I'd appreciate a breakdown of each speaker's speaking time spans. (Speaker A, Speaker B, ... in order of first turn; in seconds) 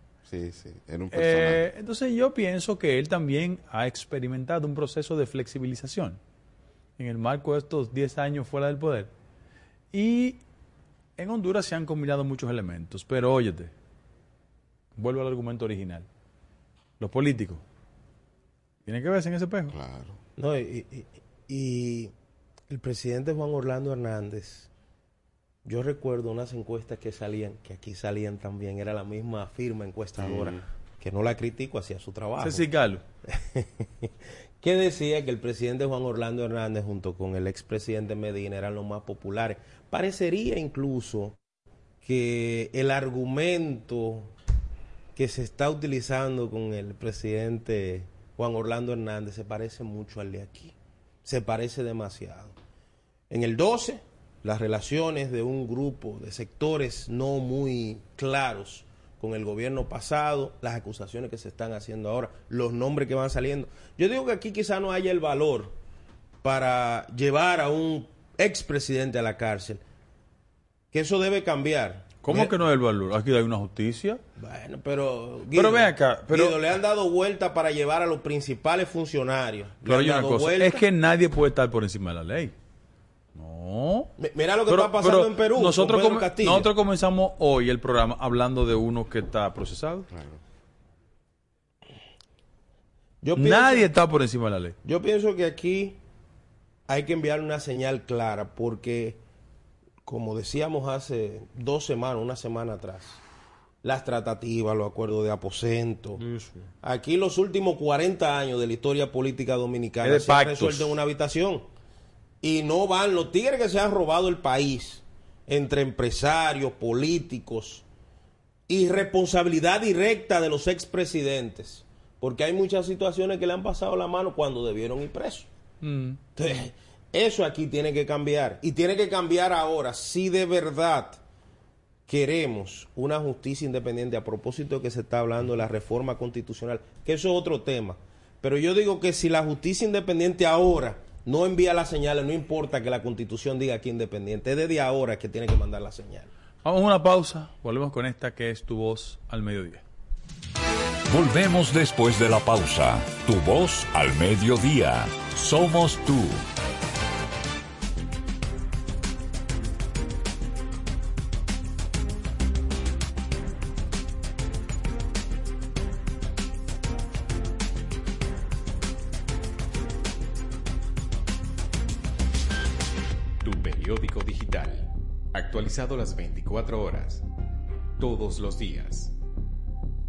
Speaker A: 0.3-1.7, 19.7-20.2, 30.2-30.6, 90.1-90.4
Speaker B: 1.1-6.2, 7.0-9.1, 9.9-10.4, 11.2-13.7, 15.0-16.1, 17.0-17.6, 18.9-19.8, 32.4-33.0, 72.2-74.2, 75.5-76.6, 79.9-82.6, 83.3-84.2, 84.7-90.1, 93.4-94.8, 106.2-106.7, 110.0-111.0, 125.8-126.3, 146.6-149.8
Speaker C: 20.4-22.1, 22.7-24.7, 25.6-32.7, 33.3-41.4, 42.0-44.3, 45.1-52.5, 53.3-65.8, 66.4-69.8, 70.9-72.5, 74.4-80.8, 84.2-86.7, 93.2-93.9, 94.8-96.0, 96.9-99.2, 100.0-103.2, 103.8-106.2, 106.8-111.7, 112.4-117.8, 118.7-125.5, 126.4-131.2, 132.1-146.3
Speaker D: 151.1-156.4
Speaker E: 173.4-177.3, 178.0-179.2